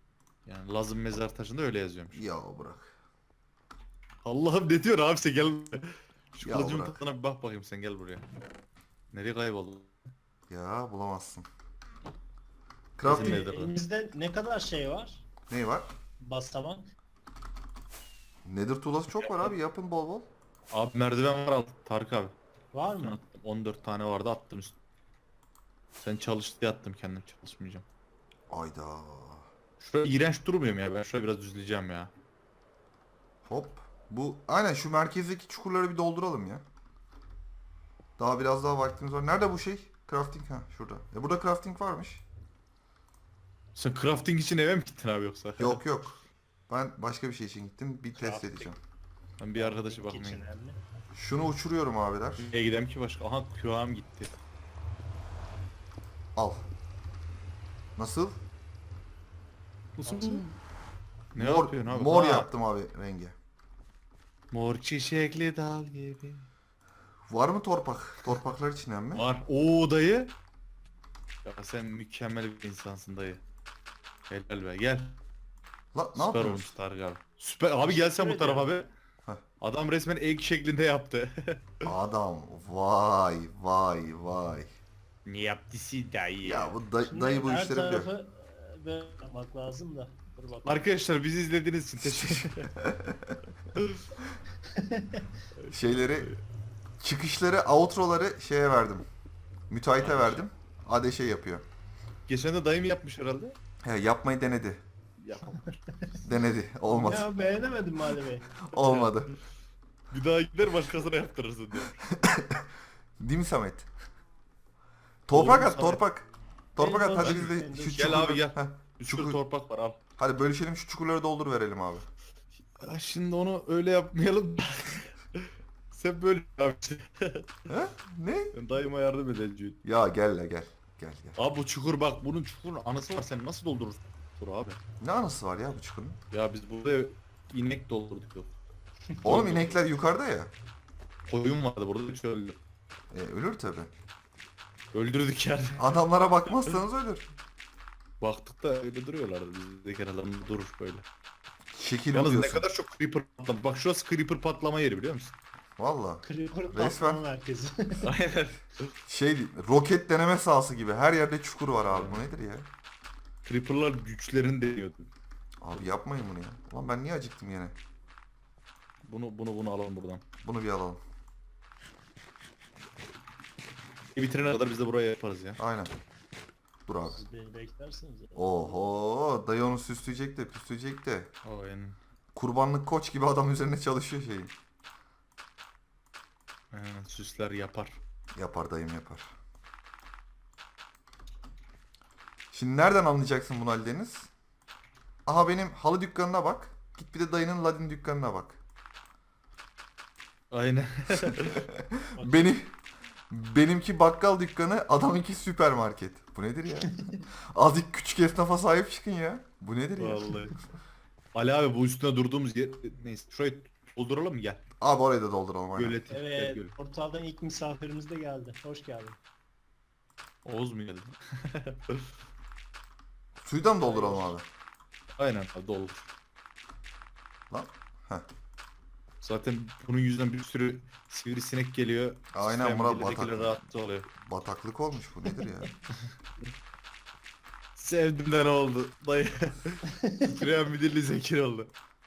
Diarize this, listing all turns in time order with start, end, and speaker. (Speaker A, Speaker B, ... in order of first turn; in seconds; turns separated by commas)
Speaker A: 0.5-2.2, Speaker B: 2.1-2.9, Speaker A: 4.2-8.2, Speaker B: 6.4-7.0, Speaker A: 9.1-9.9, Speaker B: 10.5-11.5, Speaker B: 13.0-13.5, Speaker A: 13.0-13.8, Speaker C: 13.1-15.2, Speaker B: 15.5-15.9, Speaker C: 16.2-16.9, Speaker B: 18.4-20.3, Speaker A: 19.2-19.5, Speaker A: 20.7-22.3, Speaker C: 22.7-23.2, Speaker A: 23.0-24.8, Speaker A: 26.0-27.9, Speaker B: 28.5-29.5, Speaker A: 29.8-32.1, Speaker B: 33.5-36.6, Speaker B: 38.2-42.2, Speaker A: 43.8-45.8, Speaker B: 45.6-48.8, Speaker C: 48.2-48.7, Speaker A: 49.4-50.4, Speaker C: 49.5-50.8, Speaker B: 51.1-52.5, Speaker A: 52.4-54.4, Speaker B: 56.4-56.6, Speaker B: 58.0-58.4, Speaker A: 60.0-60.5, Speaker C: 60.0-60.5, Speaker A: 61.4-62.5, Speaker B: 61.4-63.4, Speaker A: 64.5-66.5, Speaker B: 67.3-69.3, Speaker A: 69.1-70.3, Speaker A: 71.4-73.4, Speaker A: 74.3-75.2, Speaker B: 75.9-76.7, Speaker A: 76.2-78.9, Speaker C: 77.8-78.8, Speaker A: 79.6-81.8, Speaker B: 81.8-84.7, Speaker A: 85.3-86.8, Speaker B: 86.4-88.1, Speaker C: 87.1-90.8, Speaker A: 90.7-92.7, Speaker B: 92.0-93.4, Speaker A: 93.7-94.0, Speaker C: 94.7-95.3, Speaker A: 95.6-96.4, Speaker B: 95.7-96.3, Speaker B: 97.0-99.1, Speaker B: 99.7-101.7, Speaker A: 100.0-100.5, Speaker A: 102.3-103.6, Speaker B: 103.8-104.8, Speaker A: 105.2-105.8, Speaker B: 106.2-107.3, Speaker C: 106.9-108.5, Speaker B: 108.6-109.3, Speaker A: 108.8-109.3, Speaker A: 110.1-112.0, Speaker B: 112.1-112.7, Speaker B: 113.2-113.9, Speaker B: 115.3-116.2, Speaker A: 115.3-116.0, Speaker B: 116.8-119.4, Speaker C: 116.8-118.2, Speaker A: 117.2-120.0, Speaker B: 120.2-122.1, Speaker A: 122.8-127.5, Speaker B: 127.7-128.5, Speaker A: 128.5-129.8, Speaker B: 129.8-131.4, Speaker A: 131.4-134.8, Speaker B: 135.0-136.2, Speaker A: 136.3-138.5, Speaker A: 139.2-139.8, Speaker B: 139.2-140.5, Speaker A: 141.3-142.6, Speaker B: 143.1-143.9, Speaker A: 144.9-145.9, Speaker B: 145.8-147.2, Speaker A: 148.2-151.1, Speaker B: 151.7-152.7, Speaker A: 152.1-155.3, Speaker B: 155.8-157.2, Speaker C: 156.2-158.1, Speaker A: 158.0-158.9, Speaker B: 159.1-162.7, Speaker A: 161.9-162.3, Speaker A: 163.4-165.1, Speaker B: 165.6-167.8, Speaker A: 169.1-170.2, Speaker B: 170.4-171.0, Speaker A: 174.2-175.6, Speaker B: 175.6-175.9, Speaker B: 176.9-177.2, Speaker C: 177.1-178.9, Speaker B: 178.3-181.3, Speaker A: 181.4-182.0, Speaker B: 182.3-184.5, Speaker A: 186.7-188.0, Speaker B: 188.3-189.3, Speaker B: 192.5-194.3, Speaker B: 195.3-198.6, Speaker A: 200.5-201.7, Speaker B: 201.1-202.8, Speaker C: 202.2-202.5, Speaker B: 203.3-210.4, Speaker A: 210.0-210.5, Speaker A: 211.3-214.6, Speaker B: 214.8-216.0, Speaker A: 215.8-216.7, Speaker C: 216.1-219.2, Speaker A: 220.4-222.1, Speaker B: 223.4-224.4, Speaker C: 223.8-224.3, Speaker A: 225.2-226.1, Speaker B: 227.5-228.3, Speaker A: 229.2-234.1, Speaker B: 232.3-233.6, Speaker B: 234.2-235.7, Speaker A: 237.8-241.7, Speaker C: 239.9-240.4